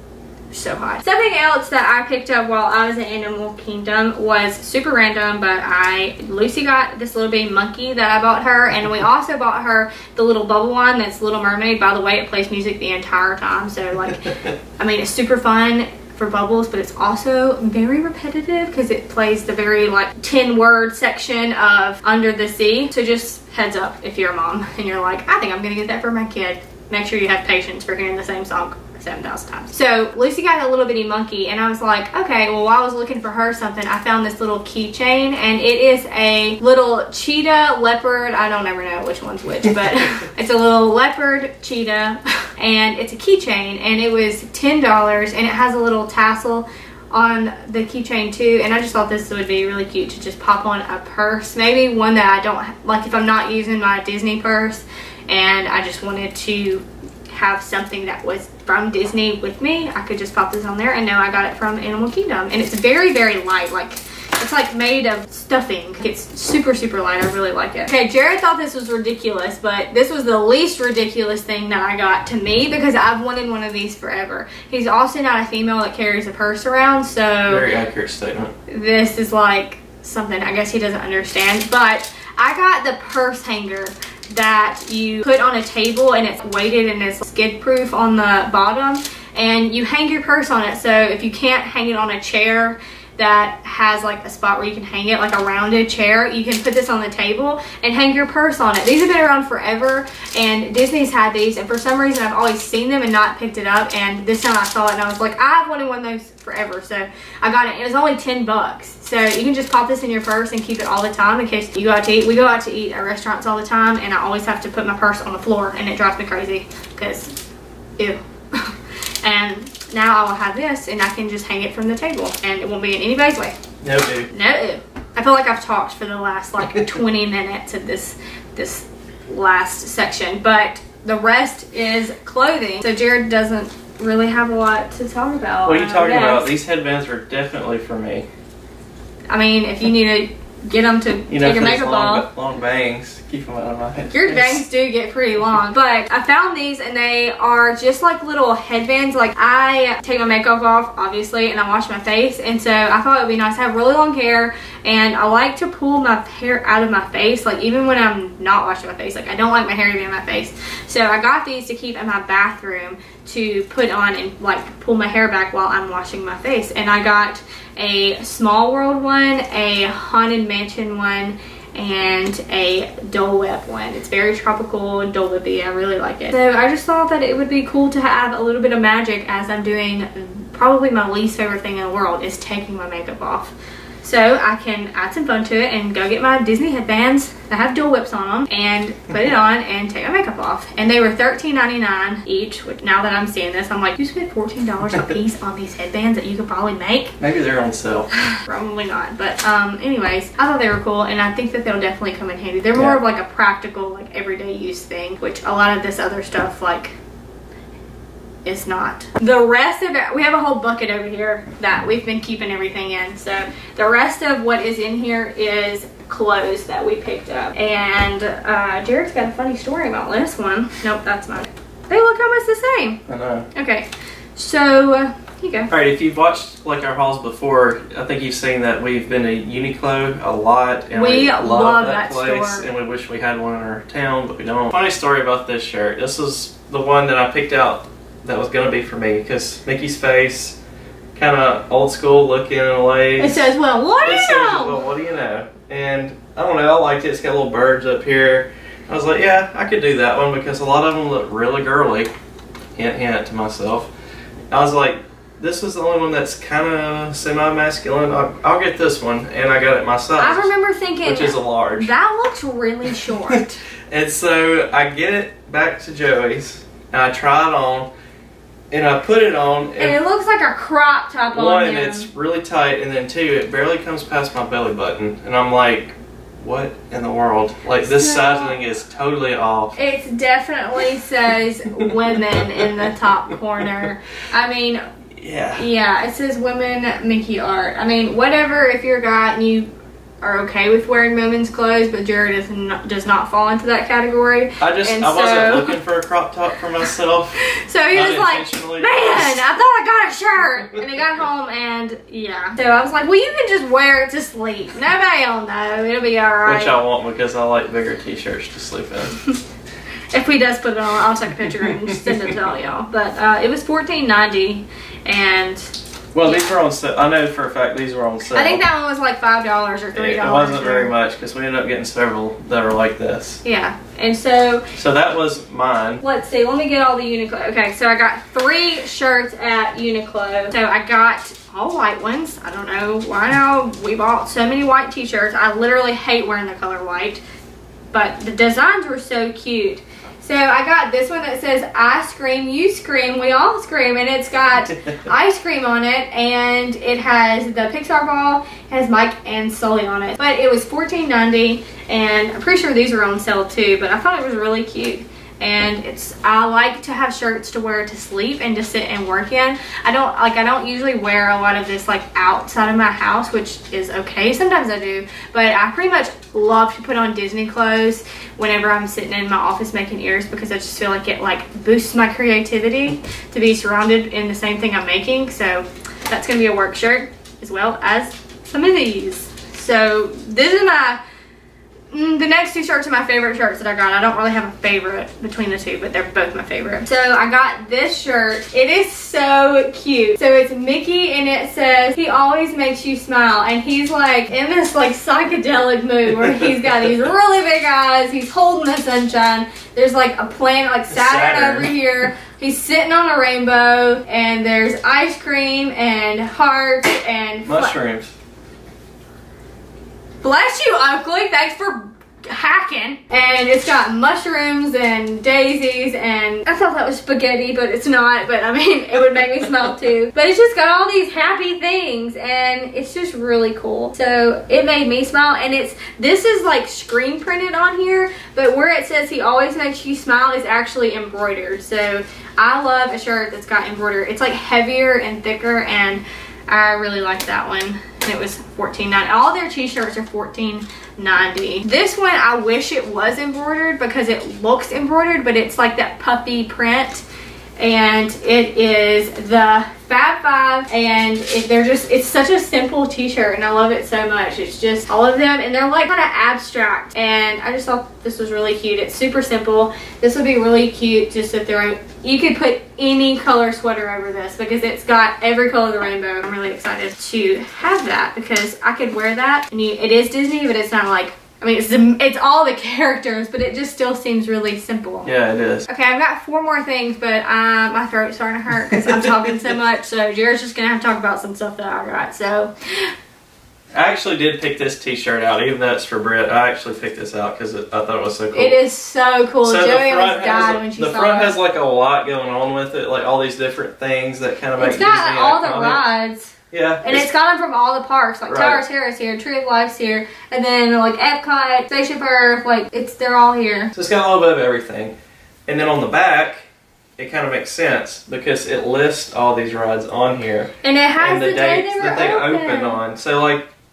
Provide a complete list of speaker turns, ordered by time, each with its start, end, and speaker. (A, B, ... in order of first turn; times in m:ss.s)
0:00.5-1:17.6 A
1:17.5-1:18.5 B
1:18.7-1:57.4 A
1:58.0-2:03.6 A
2:03.8-2:04.3 B
2:04.3-2:16.5 A
2:15.6-2:18.3 B
2:19.3-2:22.2 A
2:21.3-2:24.6 B
2:24.1-3:17.2 A
3:17.2-3:18.1 B
3:18.2-3:27.0 A
3:28.4-3:43.0 A
3:43.1-3:43.5 B
3:43.5-3:45.7 A
3:45.7-4:00.6 B
3:50.9-3:52.7 A
4:01.2-4:03.5 B
4:03.2-4:04.8 A
4:04.0-4:12.1 B
4:12.8-4:13.9 B
4:14.5-4:20.5 B
4:20.2-4:23.6 A
4:21.0-4:21.9 B
4:23.3-4:27.9 B
4:28.7-4:30.0 B
4:29.8-4:32.1 A
4:31.3-4:39.8 B
4:37.9-4:38.6 A
4:39.8-4:44.8 A
4:41.7-4:42.9 B
4:45.2-4:45.7 B
4:45.6-4:49.7 A
4:50.2-4:55.7 A
4:54.6-4:57.4 B
4:57.4-5:06.8 A
4:57.9-4:59.4 B
5:06.4-5:09.2 B
5:10.1-5:15.7 A
5:16.1-5:18.6 B
5:18.3-5:20.9 A
5:20.0-5:23.4 B
5:23.4-5:24.7 A
5:24.8-5:26.0 B
5:26.0-5:37.2 A
5:37.9-6:21.0 A
6:21.9-6:47.8 A
6:40.9-6:41.7 B
6:47.5-6:48.1 B
6:50.2-7:27.0 A
7:27.6-7:55.1 A
7:55.0-7:55.7 B
7:55.7-8:02.9 A
7:58.7-7:59.4 B
8:03.7-8:08.6 B
8:08.3-8:11.3 A
8:09.4-8:15.8 B
8:14.6-8:23.7 A
8:16.5-8:17.1 B
8:18.3-8:18.6 B
8:23.8-8:26.5 B
8:27.0-8:33.5 B
8:30.6-8:32.8 A